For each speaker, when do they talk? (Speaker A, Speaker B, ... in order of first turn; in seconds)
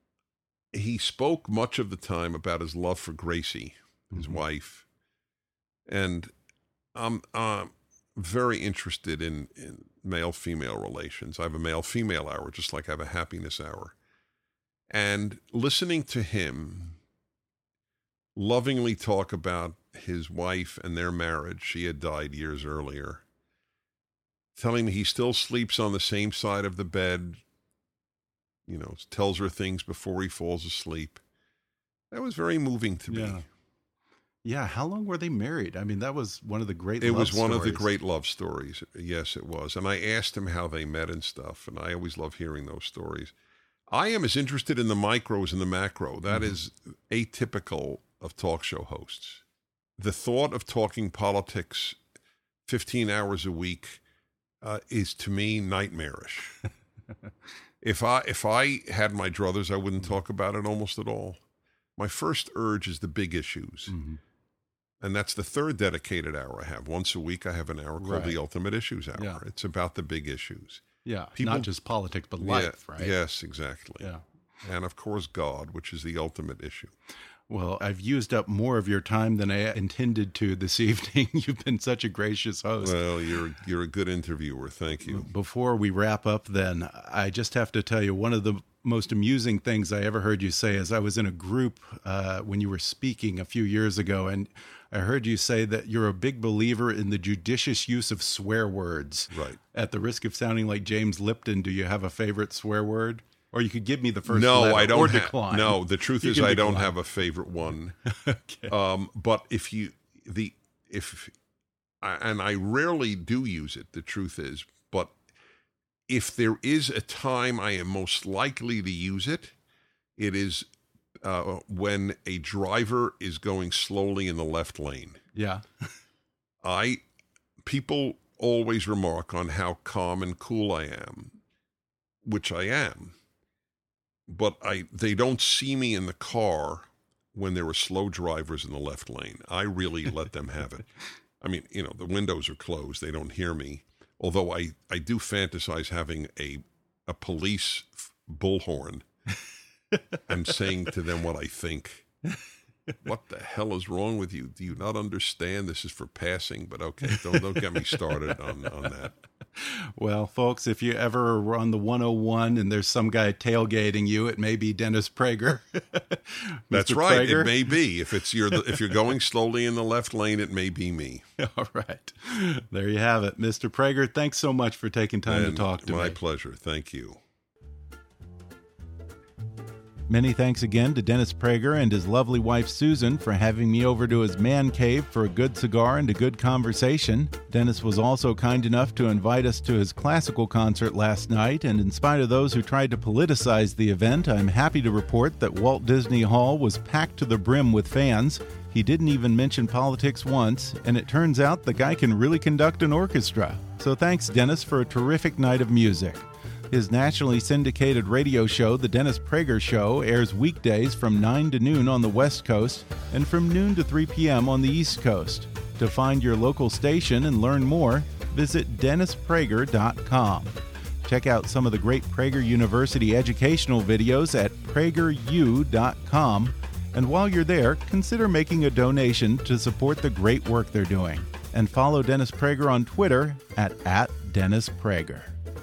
Speaker A: 0.7-4.8, 5.9-6.3, 6.9-13.9, 14.9-17.0, 18.3-23.2, 24.6-27.4, 28.6-31.2, 32.1-33.4, 37.0-43.3, 43.9-49.4, 50.0-52.0, 52.6-54.0, 54.6-56.5, 57.8-61.4, 62.0-64.0, 65.0-70.8, 71.3-71.7, 72.4-74.1, 74.6-76.9, 82.8-85.3, 99.3-99.6, 104.3-108.0, 108.7-111.3, 112.0-115.2, 116.1-119.5, 120.2-120.7, 121.2-125.2, 126.6-127.0, 127.6-131.4, 132.2-133.2, 134.3-140.9, 141.4-149.1, 150.3-152.1, 153.0-159.1, 166.7-171.2, 175.3-177.2
Speaker B: 4.1-4.4, 33.1-33.4, 34.4-37.9, 46.3-46.5, 63.9-64.2, 68.0-68.4, 69.1-69.4, 71.0-73.1, 77.5-83.0, 85.0-106.9, 108.1-108.7, 125.3-125.8, 157.1-158.1, 159.6-167.7, 171.4-176.2, 180.1-235.3